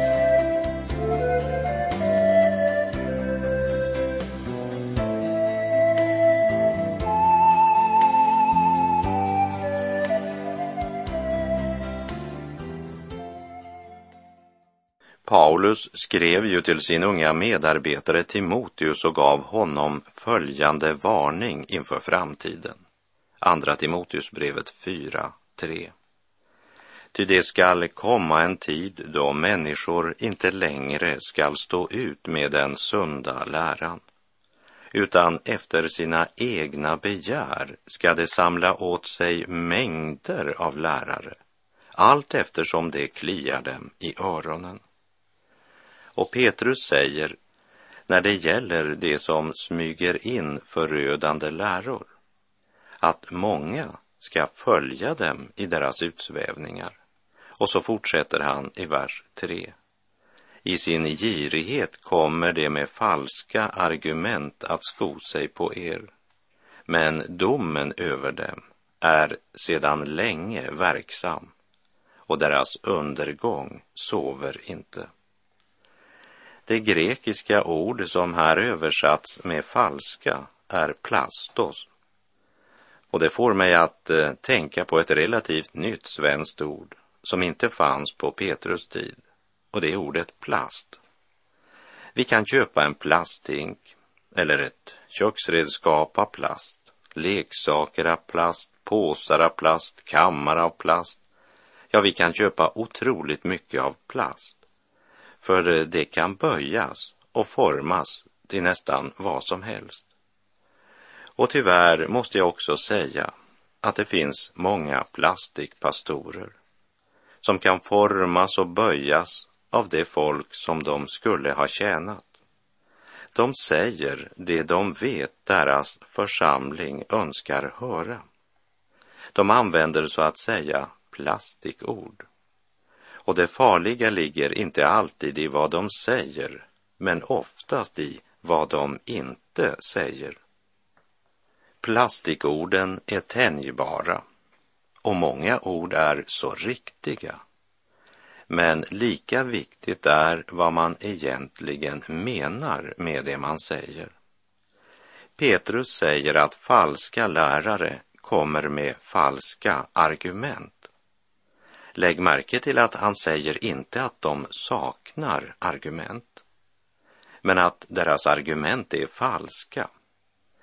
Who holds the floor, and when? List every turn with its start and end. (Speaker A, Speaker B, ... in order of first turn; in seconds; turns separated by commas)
Speaker A: 15.2-22.8, Speaker A: 23.4-25.9, Speaker A: 27.1-34.0, Speaker A: 34.9-41.4, Speaker A: 42.0-44.8, Speaker A: 46.2-47.4, Speaker A: 48.1-52.1, Speaker A: 53.0-57.0, Speaker A: 57.6-59.8, Speaker A: 60.6-66.1, Speaker A: 66.9-71.5, Speaker A: 72.3-75.1, Speaker A: 76.7-81.9, Speaker A: 83.1-89.2, Speaker A: 89.7-91.0, Speaker A: 92.2-101.2, Speaker A: 101.9-104.6, Speaker A: 105.4-110.1, Speaker A: 111.4-113.3, Speaker A: 113.8-116.5, Speaker A: 117.4-122.3, Speaker A: 123.3-128.2, Speaker A: 129.3-132.3, Speaker A: 133.3-140.4, Speaker A: 141.8-144.2, Speaker A: 145.0-147.4, Speaker A: 148.5-154.1, Speaker A: 155.4-160.9, Speaker A: 162.0-166.4, Speaker A: 167.4-169.9